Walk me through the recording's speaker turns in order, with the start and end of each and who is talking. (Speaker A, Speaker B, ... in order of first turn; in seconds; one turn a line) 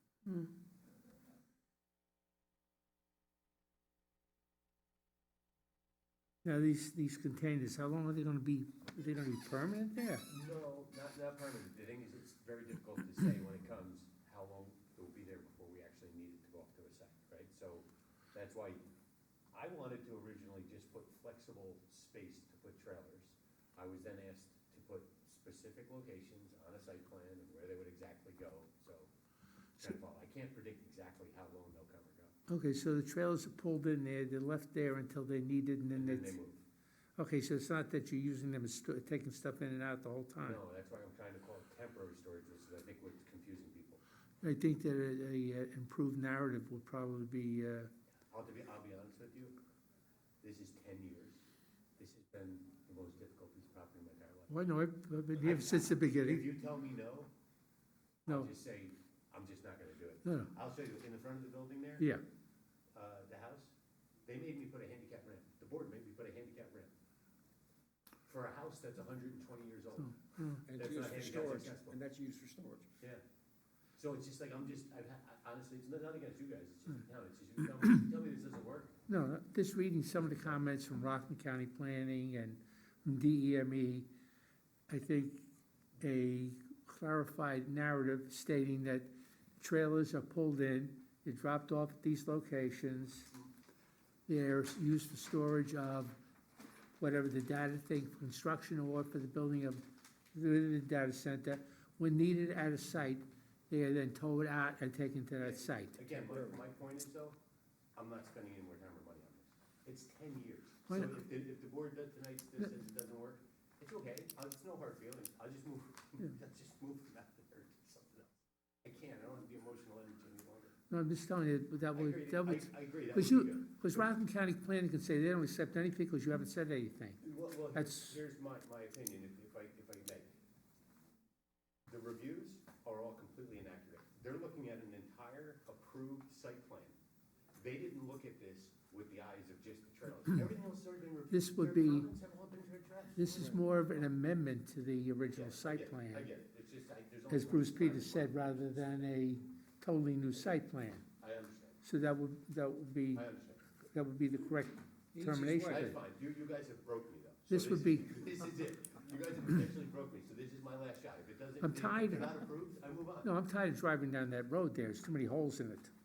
Speaker A: 0.2-0.5
Speaker A: 6.5-10.3
Speaker B: 10.3-18.8
Speaker B: 19.5-29.1
Speaker B: 29.8-32.3
Speaker A: 32.5-36.4
Speaker B: 35.9-36.6
Speaker A: 37.2-40.6
Speaker B: 40.4-44.0
Speaker A: 44.4-47.9
Speaker B: 48.3-49.5
Speaker B: 50.4-51.4
Speaker B: 52.0-54.6
Speaker A: 54.5-56.5
Speaker B: 55.4-57.3
Speaker B: 58.2-62.1
Speaker A: 60.2-60.5
Speaker B: 63.0-63.7
Speaker B: 64.2-66.9
Speaker B: 68.3-72.0
Speaker A: 70.2-70.6
Speaker C: 70.7-72.9
Speaker B: 74.0-79.0
Speaker A: 79.1-84.1
Speaker A: 84.9-85.4
Speaker A: 86.0-89.1
Speaker A: 89.6-93.3
Speaker A: 94.3-96.1
Speaker A: 97.0-99.8
Speaker A: 100.3-106.0
Speaker B: 105.4-107.4
Speaker C: 106.2-106.6
Speaker B: 108.0-120.8
Speaker A: 110.9-111.2
Speaker A: 120.9-127.2
Speaker B: 121.9-124.1
Speaker B: 127.2-130.3
Speaker A: 127.7-128.2
Speaker B: 131.9-136.9
Speaker B: 137.5-144.1
Speaker A: 141.3-142.1
Speaker A: 143.2-146.3
Speaker B: 145.3-149.4
Speaker A: 147.3-151.0
Speaker B: 151.2-151.8
Speaker A: 151.8-153.2
Speaker B: 153.1-153.6
Speaker A: 153.9-156.0
Speaker C: 155.1-155.9
Speaker B: 155.6-163.3
Speaker A: 157.5-158.1
Speaker A: 161.6-162.5
Speaker A: 163.2-165.9